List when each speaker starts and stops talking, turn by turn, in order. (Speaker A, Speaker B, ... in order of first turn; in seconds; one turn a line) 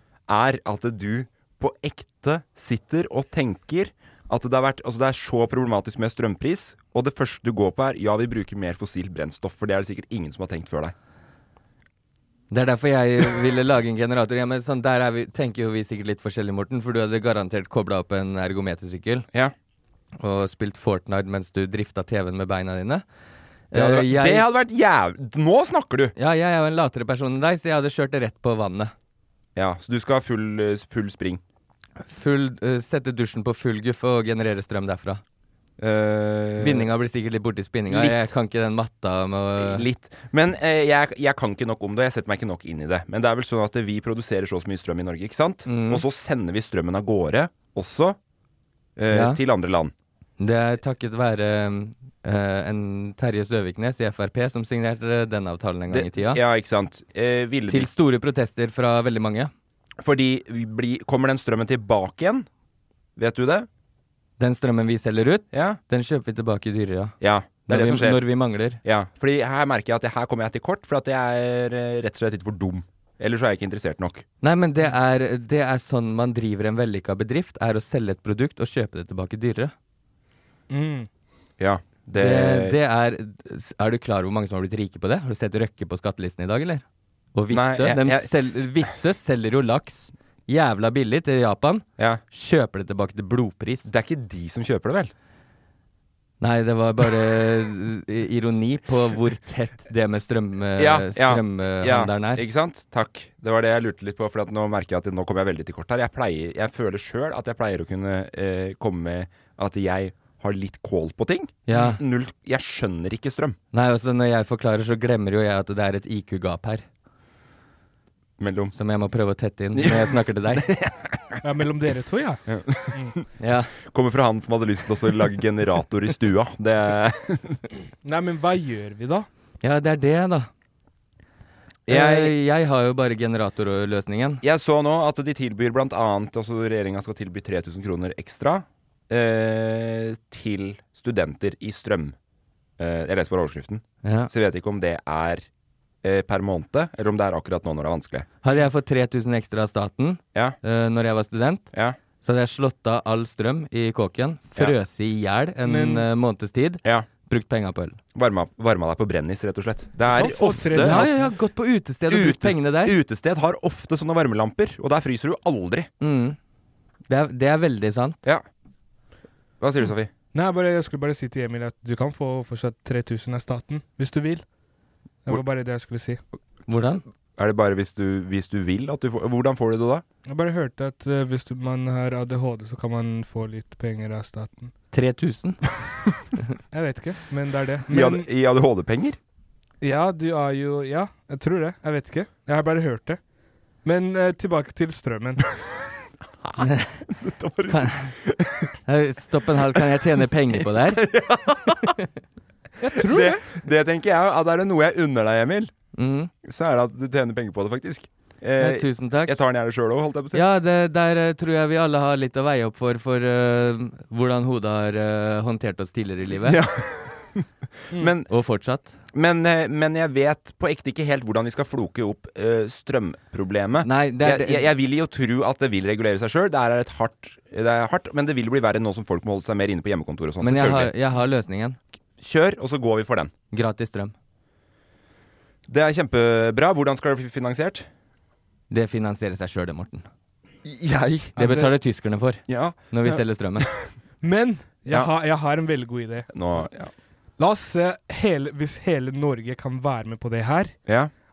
Speaker A: 0.3-10.9
Speaker B: 12.5-19.3
Speaker B: 20.2-23.0
Speaker B: 23.7-24.5
Speaker A: 23.7-26.1
Speaker B: 26.1-28.9
Speaker A: 29.6-31.4
Speaker B: 32.0-35.2
Speaker A: 35.8-36.9
Speaker B: 36.6-39.9
Speaker A: 37.9-38.3
Speaker A: 39.6-48.2
Speaker B: 45.6-46.0
Speaker A: 49.0-49.9
Speaker B: 49.1-49.4
Speaker B: 50.4-56.4
Speaker A: 55.9-57.9
Speaker B: 57.7-59.5
Speaker A: 60.0-62.5
Speaker A: 63.2-63.7
Speaker B: 64.4-67.1
Speaker A: 65.5-65.8
Speaker A: 67.2-68.2
Speaker B: 67.7-68.8
Speaker A: 68.8-74.2
Speaker B: 74.4-79.7
Speaker C: 80.7-81.1
Speaker A: 81.6-82.8
Speaker B: 82.2-93.9
Speaker A: 87.5-88.3
Speaker A: 93.8-95.1
Speaker B: 96.4-102.4
Speaker A: 100.8-113.6
Speaker B: 111.7-112.0
Speaker B: 113.7-116.8
Speaker A: 118.4-118.7
Speaker B: 118.7-120.7
Speaker A: 119.7-121.4
Speaker C: 121.4-123.1
Speaker A: 122.5-123.2
Speaker B: 123.4-123.7
Speaker A: 123.8-127.6
Speaker C: 128.0-129.3
Speaker B: 129.6-130.5
Speaker A: 131.9-132.3
Speaker B: 131.9-134.4
Speaker A: 134.4-142.1
Speaker A: 142.8-145.5
Speaker B: 144.0-144.3
Speaker A: 146.0-148.3
Speaker B: 148.4-151.7
Speaker B: 152.2-158.0
Speaker C: 155.6-156.1
Speaker A: 158.1-161.0
Speaker C: 160.1-161.3
Speaker B: 160.8-162.9
Speaker A: 162.1-165.9
Speaker B: 166.0-166.4
Speaker B: 167.1-168.2
Speaker A: 169.6-170.1
Speaker C: 170.3-174.4
Speaker C: 175.2-176.2
Speaker B: 176.7-177.0
Speaker A: 177.4-180.0
Speaker C: 180.3-184.7
Speaker B: 184.9-185.6
Speaker C: 186.7-188.3
Speaker A: 187.9-189.2
Speaker C: 189.8-193.2
Speaker C: 193.8-195.5
Speaker A: 196.4-198.7
Speaker B: 196.6-197.0
Speaker B: 197.7-198.1
Speaker B: 198.8-201.1
Speaker A: 200.9-201.9
Speaker C: 202.9-203.4
Speaker A: 203.0-205.7
Speaker B: 205.9-206.3
Speaker A: 206.4-210.4
Speaker B: 208.6-209.4
Speaker B: 210.3-216.6
Speaker A: 216.4-218.3
Speaker B: 218.3-218.9
Speaker A: 219.1-230.9
Speaker B: 223.8-224.7
Speaker B: 230.4-231.8
Speaker A: 232.2-233.3
Speaker B: 233.5-234.1
Speaker A: 235.7-237.9
Speaker B: 238.7-240.1
Speaker A: 240.6-241.3
Speaker C: 241.4-241.7
Speaker B: 241.4-243.7
Speaker A: 242.5-243.9
Speaker C: 244.2-246.3
Speaker A: 246.3-246.9
Speaker C: 247.4-250.8